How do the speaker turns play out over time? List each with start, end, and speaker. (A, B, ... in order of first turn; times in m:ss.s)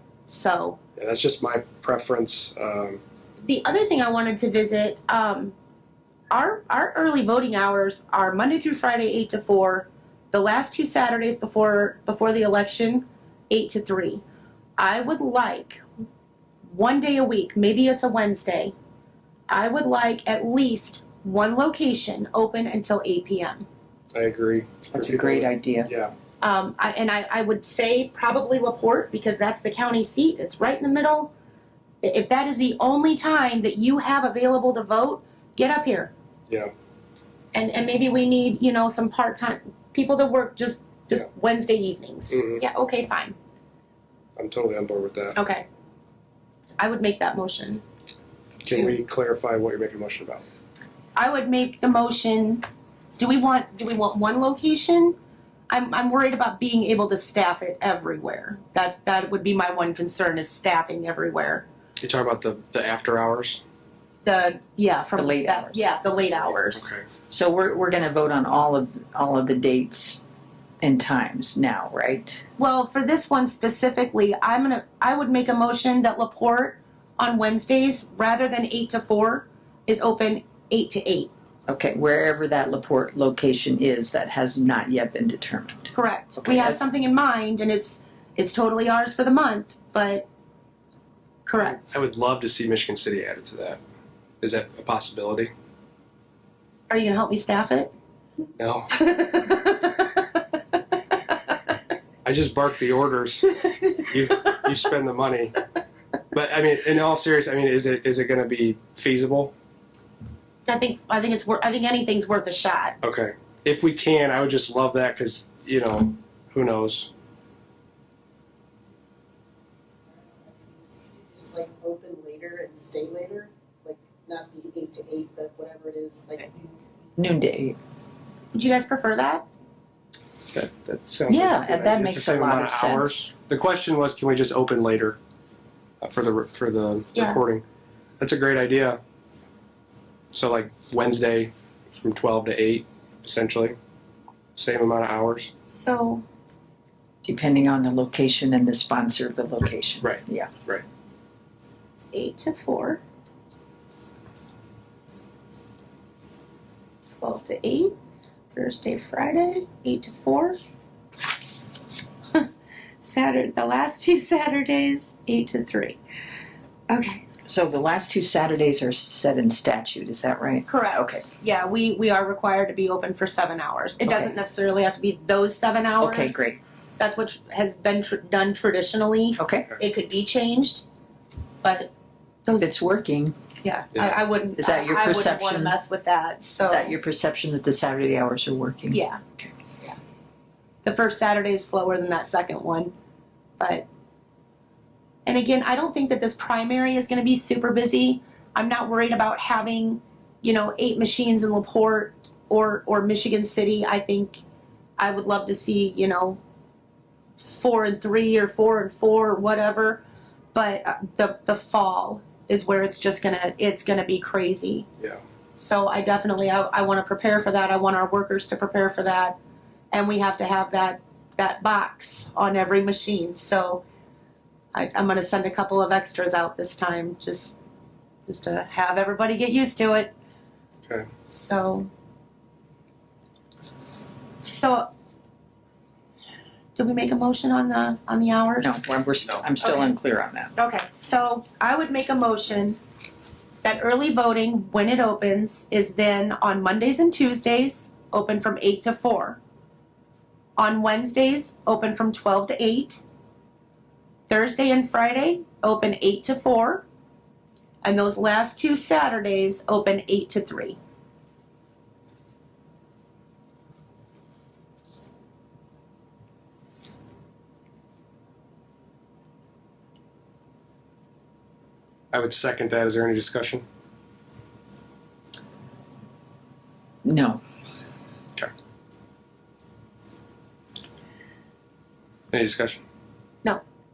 0:00.3-0:00.8 A
0:01.0-0:03.0 B
0:03.4-0:05.5 A
0:06.3-0:14.2 A
0:14.8-0:15.8 A
0:16.6-0:18.7 A
0:19.5-0:23.7 A
0:24.1-0:26.1 B
0:24.9-0:25.9 C
0:26.4-0:31.3 A
0:32.0-0:36.1 A
0:37.5-0:43.4 A
0:42.3-0:42.6 B
0:44.4-0:45.4 B
0:45.4-0:45.6 A
0:46.8-0:47.8 A
0:48.6-0:50.4 B
0:48.6-0:48.9 A
0:51.2-0:52.6 A
0:53.2-0:55.2 A
0:55.7-1:01.7 A
1:02.0-1:03.6 B
1:04.2-1:07.0 A
1:05.2-1:05.9 C
1:06.7-1:07.0 B
1:07.3-1:10.2 C
1:10.8-1:12.4 C
1:12.6-1:21.3 A
1:21.7-1:26.8 C
1:25.9-1:30.3 A
1:31.4-1:31.9 A
1:31.8-1:33.8 B
1:34.4-1:35.5 B
1:36.9-1:37.9 A
1:38.6-1:39.4 B
1:38.9-1:40.4 A
1:42.2-1:45.6 B
1:46.3-1:49.5 B
1:50.6-1:53.0 A
1:53.0-1:57.1 B
2:00.2-2:06.7 D
2:07.2-2:07.8 C
2:08.5-2:09.4 A
2:10.5-2:15.2 B
2:11.3-2:13.3 C
2:16.0-2:17.6 B
2:17.1-2:17.4 A
2:18.2-2:19.0 B
2:20.3-2:23.7 B
2:24.6-2:25.5 B
2:25.7-2:26.2 A
2:27.2-2:30.5 C
2:30.0-2:30.8 B
2:32.1-2:33.0 A
2:37.2-2:38.0 A
2:38.5-2:40.6 A
2:43.0-2:46.0 A
2:46.9-2:47.2 A
2:47.4-2:51.3 C
2:50.7-2:56.4 A
2:54.0-2:54.3 C
2:56.0-2:56.6 C
2:57.0-3:00.8 A
2:59.4-2:59.7 C
3:01.6-3:01.9 A
3:02.4-3:02.7 A
3:02.6-3:03.3 C
3:03.6-3:07.0 A
3:03.9-3:04.2 B
3:04.6-3:05.8 C
3:06.6-3:09.5 C
3:08.9-3:09.2 A
3:10.8-3:12.9 A
3:13.6-3:13.8 A
3:15.2-3:24.4 A
3:25.0-3:26.4 A
3:27.4-3:30.0 A
3:30.5-3:34.9 A
3:35.6-3:39.4 A
3:39.9-3:43.8 A
3:44.7-3:47.6 A
3:48.3-3:50.1 A
3:51.2-3:51.9 A
3:54.5-3:54.9 A
3:56.7-3:58.8 A
3:58.6-4:00.5 C
3:59.6-4:00.0 A
4:00.5-4:02.8 A
4:03.6-4:09.4 A
4:10.6-4:13.0 A
4:14.3-4:16.8 A
4:17.8-4:20.8 A
4:32.1-4:33.6 B
4:37.0-4:37.4 C
4:42.3-4:42.8 B